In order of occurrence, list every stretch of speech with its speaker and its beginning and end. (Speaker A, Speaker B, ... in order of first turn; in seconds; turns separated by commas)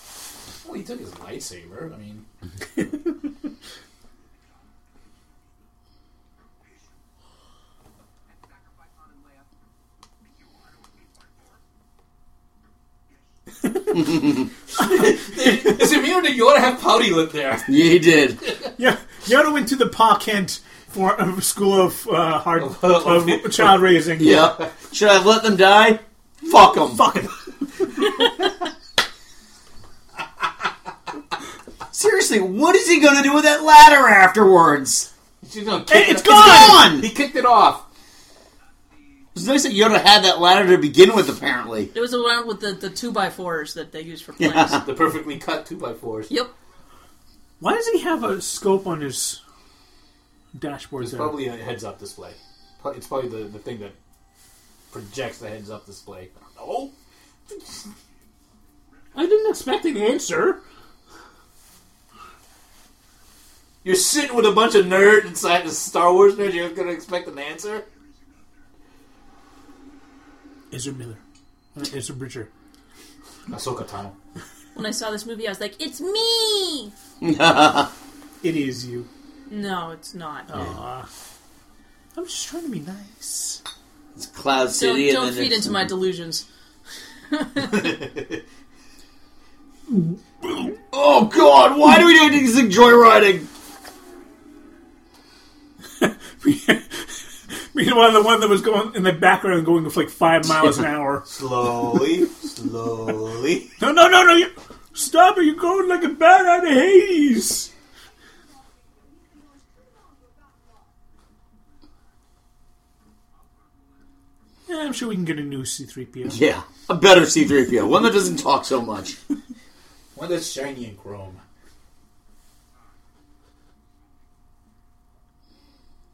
Speaker A: 0.6-2.2, Speaker B: 14.0-14.4, Speaker A: 14.8-17.7, Speaker B: 17.7-18.4, Speaker C: 18.8-24.4, Speaker A: 22.6-24.0, Speaker B: 24.2-27.1, Speaker C: 26.8-27.4, Speaker B: 31.9-35.1, Speaker A: 35.4-37.9, Speaker C: 35.9-36.9, Speaker B: 36.1-37.1, Speaker B: 39.4-41.9, Speaker D: 41.9-44.8, Speaker B: 44.4-44.8, Speaker A: 44.8-46.3, Speaker C: 47.6-49.4, Speaker C: 50.5-51.4, Speaker A: 51.0-54.0, Speaker A: 54.9-56.9, Speaker C: 59.1-60.6, Speaker A: 63.8-67.9, Speaker C: 70.7-71.2, Speaker C: 71.8-72.5, Speaker A: 73.5-74.2, Speaker D: 74.7-76.9, Speaker B: 77.2-77.9, Speaker C: 78.4-79.1, Speaker D: 79.5-80.5, Speaker C: 80.5-81.1, Speaker C: 82.2-83.6, Speaker B: 84.2-85.9, Speaker D: 84.7-86.5, Speaker D: 87.3-88.0, Speaker C: 89.9-90.7, Speaker B: 90.9-93.5, Speaker C: 96.0-101.3, Speaker A: 101.3-103.7, Speaker C: 103.8-107.7, Speaker C: 114.7-116.4, Speaker B: 116.3-119.2, Speaker A: 120.2-121.4